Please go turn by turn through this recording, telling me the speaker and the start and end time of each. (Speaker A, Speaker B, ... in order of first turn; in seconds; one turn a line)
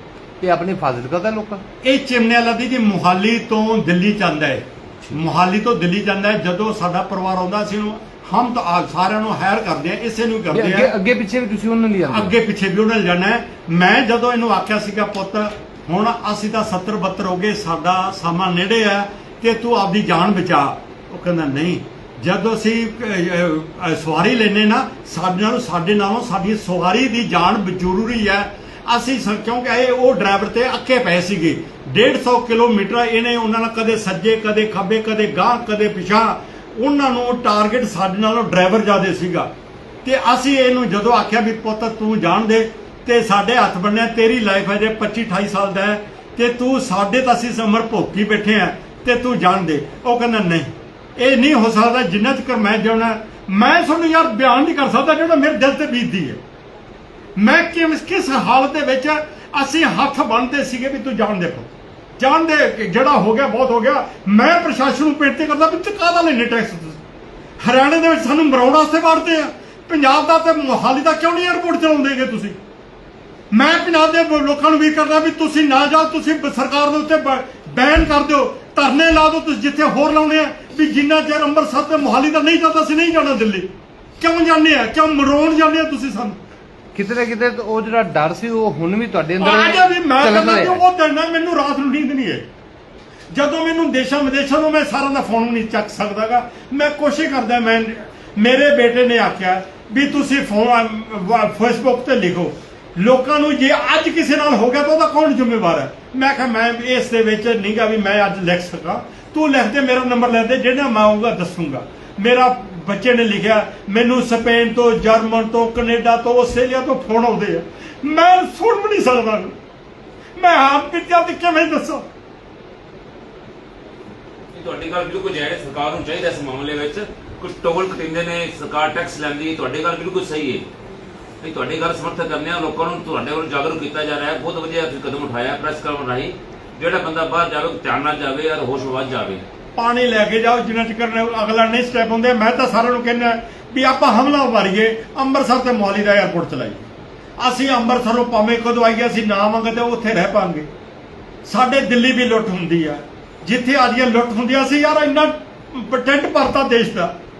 Speaker A: 0.4-1.6
Speaker B: 1.8-10.9
Speaker A: 10.5-12.3
Speaker B: 12.1-39.5
Speaker B: 40.0-56.4
Speaker B: 57.4-67.0
Speaker B: 67.6-72.6
Speaker B: 73.5-83.7
Speaker B: 84.2-86.4
Speaker A: 86.9-90.8
Speaker B: 89.4-92.4
Speaker B: 93.3-119.5
Speaker B: 120.3-122.0
Speaker C: 124.5-130.6
Speaker C: 131.4-139.4
Speaker B: 139.7-146.8
Speaker B: 147.4-150.7
Speaker B: 151.4-157.1